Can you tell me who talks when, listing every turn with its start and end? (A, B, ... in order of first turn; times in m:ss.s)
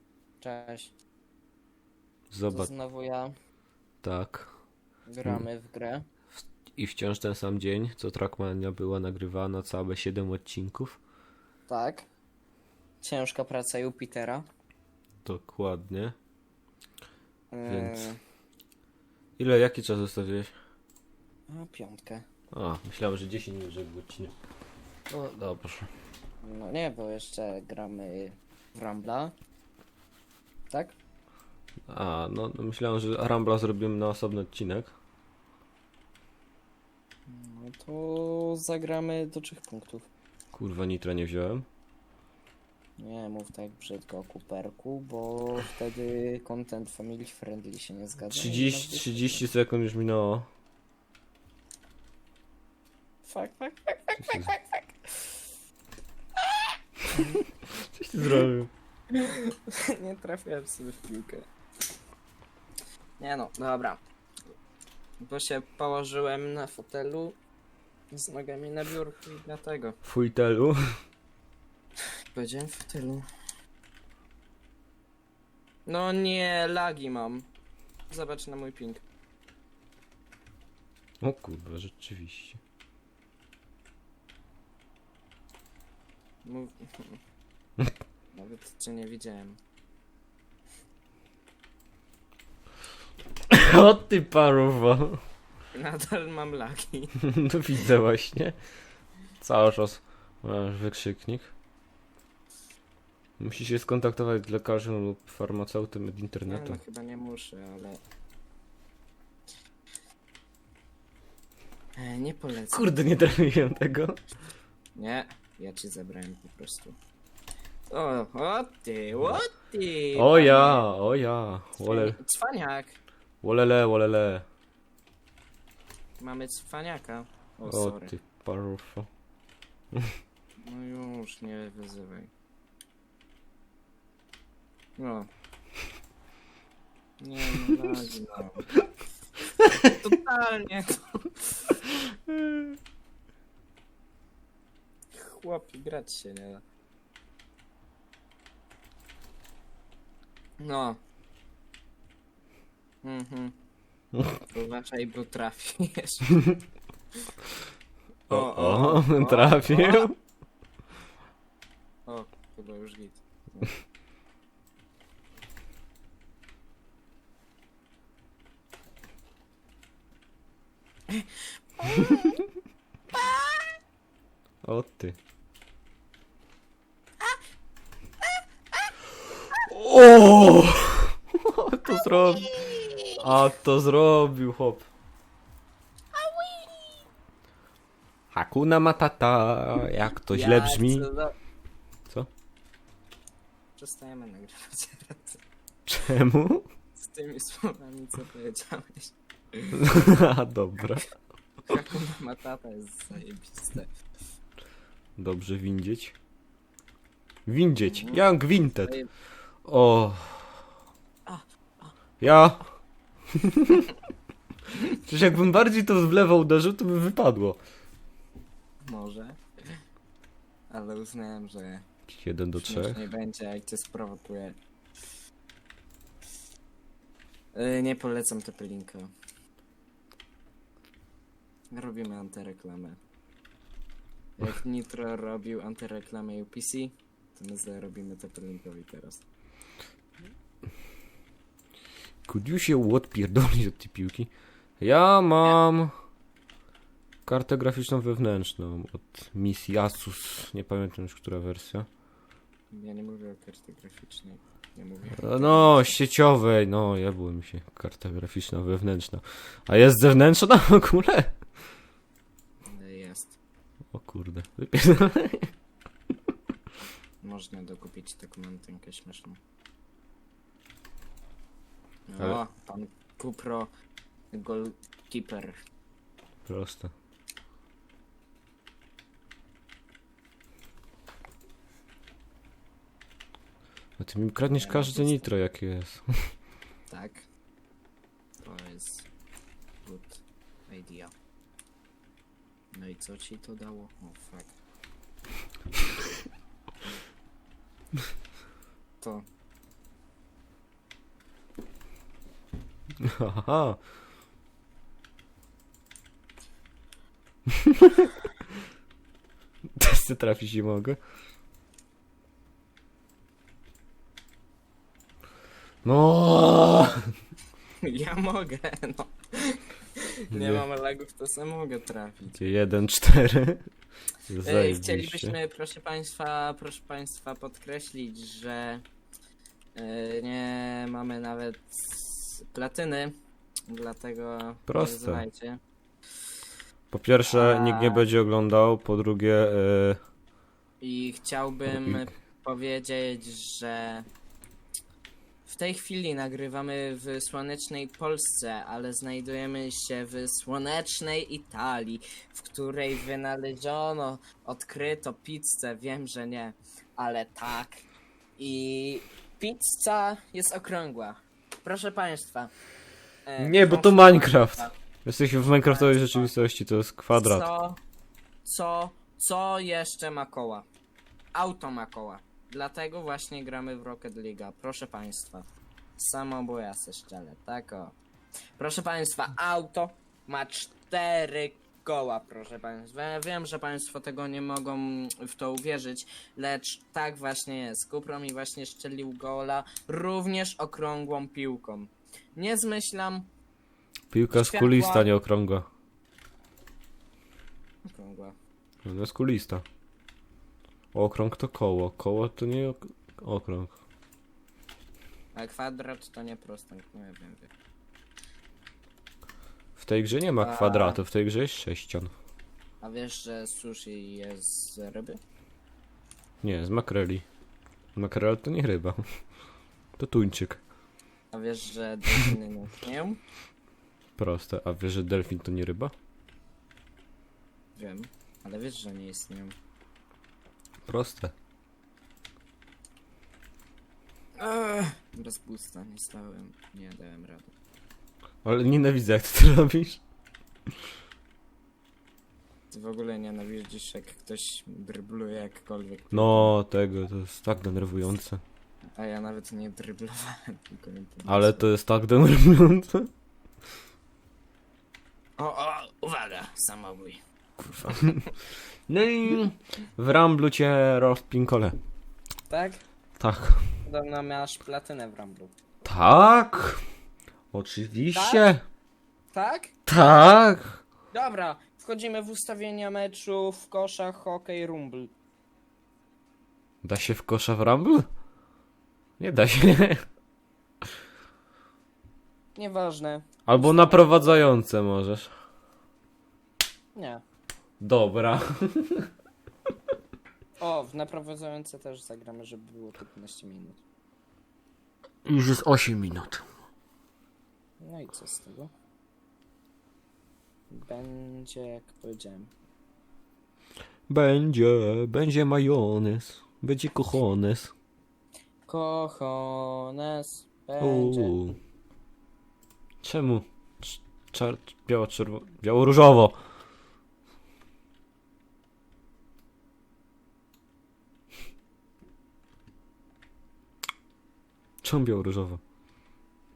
0:00.4-0:00.9 A
0:02.3-0:02.7 B
0:02.5-0:03.3 A
0:04.0-0:04.5 B
0:05.0-0:06.0 A
0:06.8-0:11.0 B
0:11.7-0:12.1 A
0:13.0-0:14.5 A
0:15.2-0:16.1 B
0:17.5-0:18.2 A
0:17.6-0:18.1 B
0:19.4-0:20.5 B
0:21.5-0:22.2 A
0:22.5-0:24.3 B
0:25.1-0:25.9 B
0:26.4-0:29.3 A
0:30.7-0:31.0 A
0:31.9-0:35.0 B
0:37.3-0:40.1 A
0:40.5-0:41.6 B
0:43.0-0:49.5 A
0:48.3-0:50.5 B
0:53.2-0:55.4 A
0:54.2-0:54.5 B
0:56.4-0:57.3 A
0:57.2-0:58.7 B
0:59.1-1:01.5 A
1:03.2-1:04.0 A
1:05.2-1:07.4 A
1:08.1-1:10.0 A
1:10.0-1:10.8 B
1:12.3-1:13.2 A
1:15.8-1:17.5 A
1:18.1-1:19.0 A
1:21.2-1:22.6 B
1:26.4-1:27.2 A
1:28.3-1:29.6 A
1:33.5-1:35.2 B
1:35.7-1:37.2 A
1:37.2-1:38.6 B
1:39.4-1:41.5 B
1:43.4-1:46.8 B
1:46.4-1:48.0 A
1:52.0-1:52.9 A
1:52.7-1:54.2 B
1:54.9-1:57.0 A
1:57.9-2:00.9 A
2:00.1-2:02.2 B
2:01.9-2:03.0 A
2:03.4-2:04.4 B
2:06.2-2:08.1 A
2:07.7-2:09.1 B
2:10.6-2:12.3 A
2:15.0-2:15.3 A
2:17.2-2:18.7 A
2:19.6-2:19.9 B
2:20.0-2:21.5 A
2:22.3-2:22.6 B
2:25.1-2:26.6 A
2:30.6-2:31.0 A
2:33.0-2:33.5 A
2:34.5-2:36.3 A
2:38.3-2:40.1 A
2:38.3-2:40.1 B
2:42.0-2:43.8 A
2:51.1-2:52.4 A
2:53.1-2:53.7 A
2:54.6-2:55.2 B
2:59.7-3:02.6 B
3:01.9-3:03.2 A
3:03.2-3:04.9 B
3:06.1-3:07.0 A
3:08.3-3:11.1 B
3:10.3-3:11.3 A
3:13.8-3:15.4 A
3:15.9-3:16.7 B
3:17.0-3:19.8 A
3:19.7-3:21.2 B
3:21.6-3:23.9 A
3:25.2-3:26.1 B
3:27.4-3:28.9 B
3:27.8-3:28.2 A
3:28.8-3:29.1 A
3:29.6-3:30.6 B
3:31.2-3:31.9 A
3:32.2-3:32.6 B
3:33.4-3:33.8 B
3:34.8-3:37.6 B
3:38.8-3:39.4 A
3:40.7-3:41.8 A
3:42.1-3:43.0 B
3:42.6-3:44.6 A
3:47.5-3:49.1 A
3:51.7-3:53.0 A
3:54.4-3:59.2 A
4:02.2-4:05.9 B
4:07.2-4:11.9 B
4:12.7-4:15.9 A
4:15.2-4:21.4 B
4:22.6-4:23.4 A
4:23.9-4:25.5 B
4:27.2-4:29.4 A
4:32.1-4:33.7 A
4:34.3-4:35.5 A
4:36.4-4:36.9 B
4:44.0-4:46.3 B
4:44.5-4:45.3 A
4:46.9-4:47.2 A
4:48.4-4:49.1 A
4:49.8-4:51.1 A
4:52.7-4:54.6 A
4:59.0-4:59.2 A
5:03.0-5:03.8 B
5:07.6-5:08.1 B
5:09.8-5:11.0 B
5:15.8-5:17.0 B
5:17.8-5:19.6 A
5:20.3-5:22.5 A
5:20.4-5:20.6 B
5:22.3-5:23.6 B
5:24.2-5:25.3 B
5:24.4-5:28.8 A
5:29.7-5:33.2 A
5:33.7-5:35.6 A
5:34.7-5:35.2 B
5:36.9-5:40.0 B
5:37.2-5:38.1 A
5:40.8-5:44.0 A
5:41.7-5:42.0 B
5:45.4-5:57.8 A
5:58.4-6:02.5 A
6:03.2-6:04.7 A
6:03.4-6:07.4 B
6:05.6-6:06.3 A
6:07.1-6:07.8 A
6:08.4-6:10.6 A
6:11.3-6:18.0 A
6:18.6-6:33.3 A
6:34.1-6:35.6 B
6:34.3-6:35.1 A
6:37.8-6:38.4 A
6:38.8-6:39.6 B
6:40.9-6:43.8 B
6:45.3-6:47.5 A
6:49.8-6:52.1 B
6:50.4-6:51.0 A
6:52.8-6:55.2 A
6:56.4-6:57.2 B
6:58.0-6:59.0 B
7:00.0-7:00.6 B
7:01.3-7:03.2 A
7:04.2-7:05.9 B
7:07.8-7:09.6 A
7:10.8-7:11.3 B
7:14.4-7:17.5 A
7:18.4-7:20.0 B
7:22.7-7:26.5 A
7:26.1-7:28.4 B
7:29.0-7:31.7 A
7:31.2-7:33.1 B
7:35.4-7:37.2 A
7:37.7-7:38.2 A
7:37.8-7:38.2 B
7:38.9-7:41.8 B
7:42.5-7:42.8 A
7:43.2-7:43.6 B
7:43.8-7:45.5 A
7:45.8-7:46.8 B
7:47.5-7:48.6 B
7:48.1-7:48.5 A
7:49.3-7:49.7 A
7:49.8-7:50.8 B
7:51.1-7:55.1 A
7:56.8-7:58.0 B
7:59.2-8:00.0 B
8:02.5-8:04.4 A
8:03.4-8:05.3 B
8:06.9-8:07.2 A
8:07.8-8:09.1 B
8:10.6-8:13.8 A
8:15.2-8:16.4 B
8:17.8-8:18.7 A
8:20.7-8:22.5 A
8:24.1-8:27.7 B
8:28.7-8:31.3 A
8:30.8-8:31.6 B
8:33.0-8:36.4 B
8:44.8-8:45.6 B